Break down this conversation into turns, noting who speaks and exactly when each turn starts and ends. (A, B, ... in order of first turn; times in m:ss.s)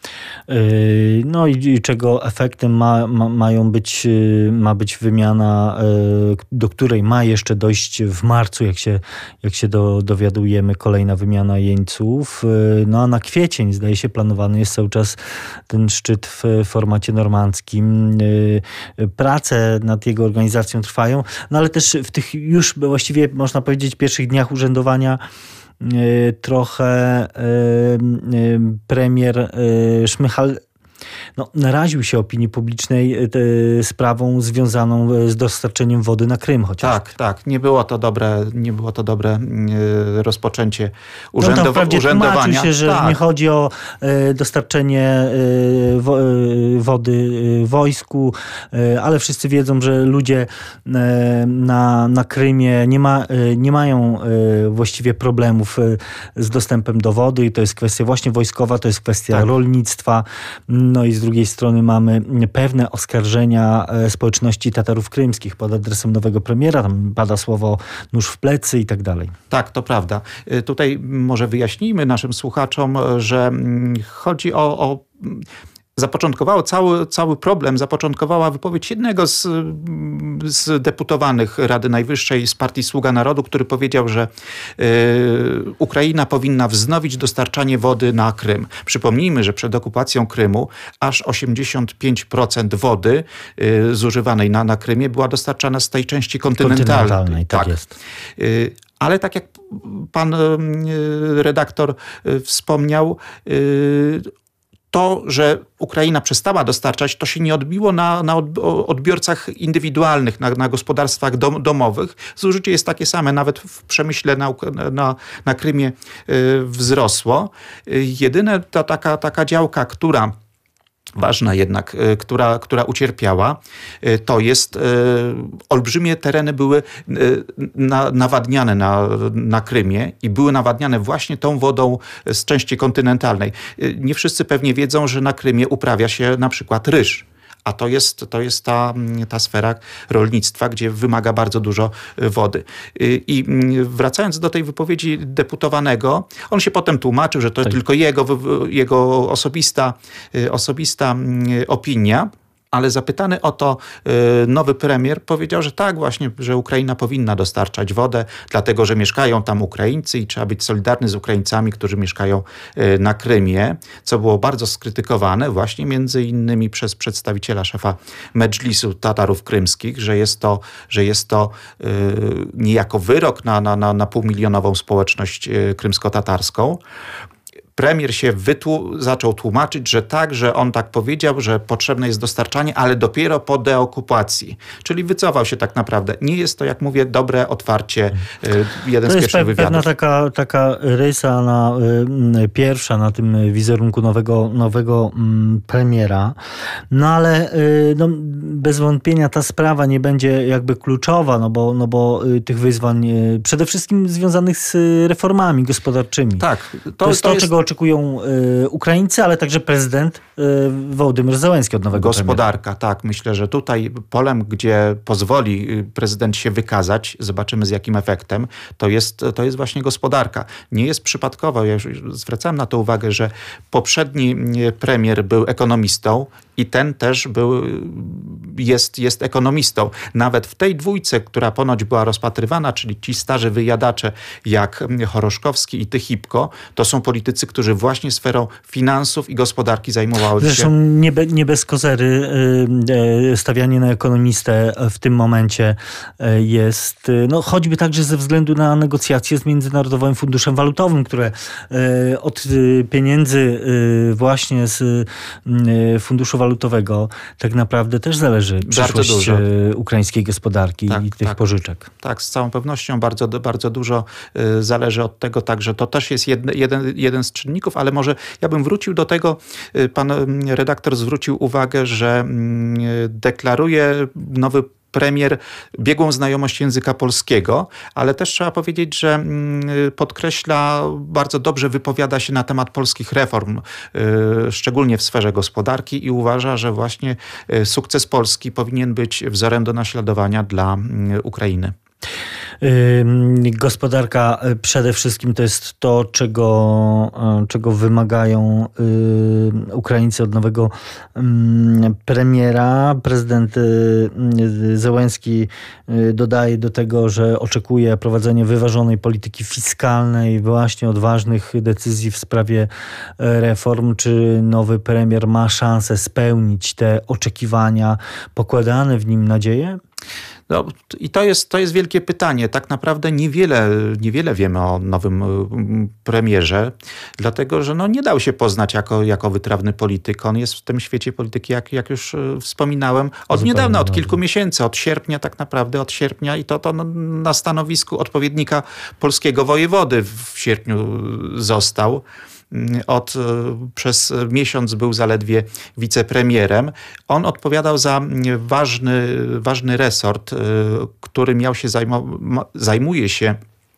0:00.5-0:25.2 A
0:25.8-0:30.6 A
0:31.4-0:37.1 A
0:36.8-0:43.2 B
0:41.4-1:09.3 A
1:09.5-1:15.4 B
1:16.0-1:37.8 B
1:36.6-1:37.9 A
1:38.4-1:44.3 B
1:44.9-2:00.3 B
2:01.2-2:56.8 B
2:57.8-3:09.9 B
3:09.0-3:16.4 A
3:16.9-3:26.5 A
3:26.4-3:27.5 B
3:27.0-3:32.4 A
3:31.9-4:00.7 B
4:00.4-4:21.9 A
4:18.6-4:19.4 B
4:20.9-4:21.4 B
4:22.0-4:51.7 B
4:52.6-5:19.8 A
5:20.5-5:53.4 B
5:33.3-5:34.2 A